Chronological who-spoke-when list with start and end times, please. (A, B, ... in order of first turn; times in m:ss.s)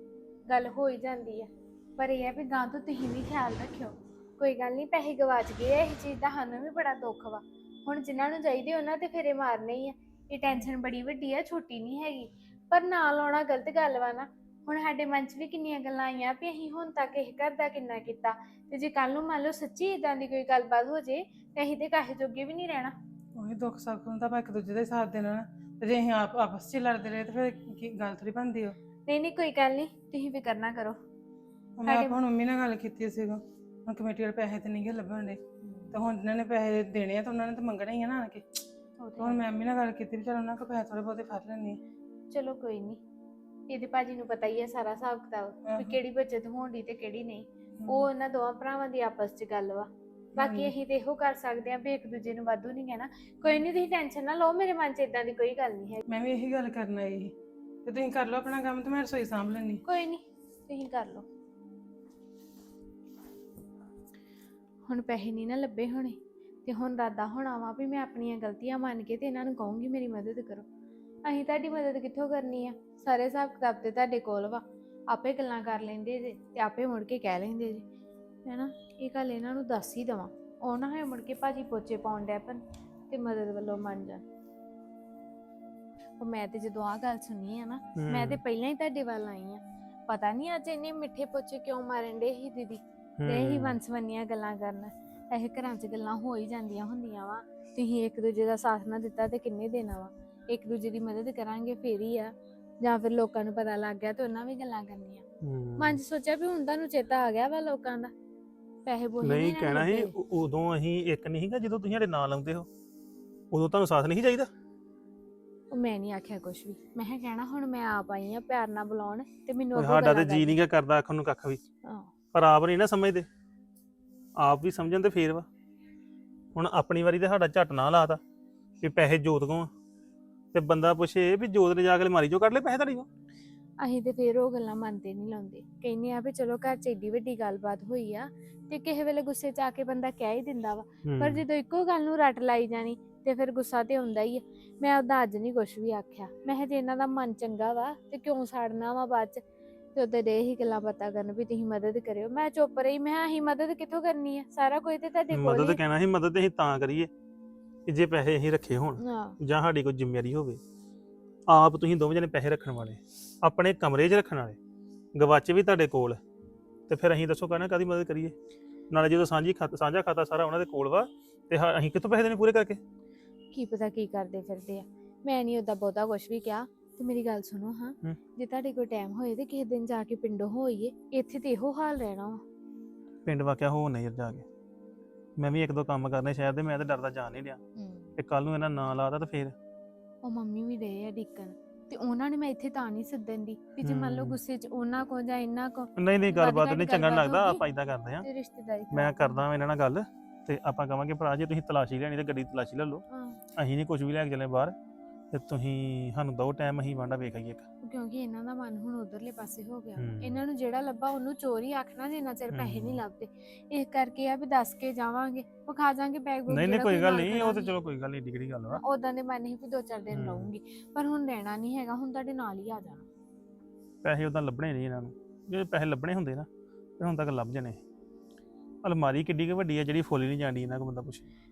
0:00.5-0:22.9 A
0:23.4-0:28.8 B
0:29.1-0:31.0 A
0:31.8-0:35.4 B
0:31.9-0:32.2 A
0:35.6-0:36.0 A
0:35.9-0:38.4 B
0:39.0-0:39.4 A
0:39.2-0:41.8 B
0:42.3-0:43.0 A
0:43.7-0:56.0 A
0:45.7-0:46.0 B
0:47.8-0:48.1 B
0:50.4-0:50.7 B
0:56.1-0:57.3 B
0:57.8-0:59.8 B
0:59.8-1:01.3 A
1:04.9-1:10.7 A
1:11.2-1:17.8 A
1:18.4-1:24.2 A
1:26.2-1:45.2 A
1:28.0-1:28.4 C
1:33.2-1:33.8 C
1:45.4-1:46.0 C
1:45.8-1:48.1 A
1:48.8-1:50.1 A
1:49.2-1:52.7 C
1:53.5-1:54.5 C
1:55.7-2:00.6 A
1:59.8-2:01.6 C
2:01.8-2:02.1 A
2:02.3-2:03.3 C
2:04.4-2:05.5 C
2:06.6-2:08.2 C
2:08.8-2:09.7 C
2:10.5-2:13.1 C
2:13.8-2:29.4 A
2:21.0-2:21.4 C
2:30.0-2:35.8 A
2:35.3-2:37.1 C
2:37.9-2:40.6 C
2:39.0-2:39.4 A
2:41.5-2:44.6 C
2:45.2-2:46.2 C
2:46.9-2:48.3 C
2:48.9-2:52.8 C
2:53.5-3:02.4 A
3:03.2-3:04.4 C
3:05.4-3:07.6 C
3:07.8-3:08.1 A
3:08.2-3:09.6 C
3:10.2-3:17.6 A
3:13.8-3:14.4 C
3:16.0-3:18.2 C
3:18.2-3:19.4 A
3:18.9-3:23.0 C
3:23.1-3:23.4 A
3:23.6-3:24.8 C
3:25.3-3:27.6 C
3:27.8-3:37.8 A
3:30.0-3:30.4 C
3:32.5-3:33.0 C
3:36.5-3:38.8 C
3:38.7-3:43.1 A
3:40.1-3:40.5 C
3:44.0-3:46.5 C
3:47.0-3:47.8 C
3:48.8-3:51.2 C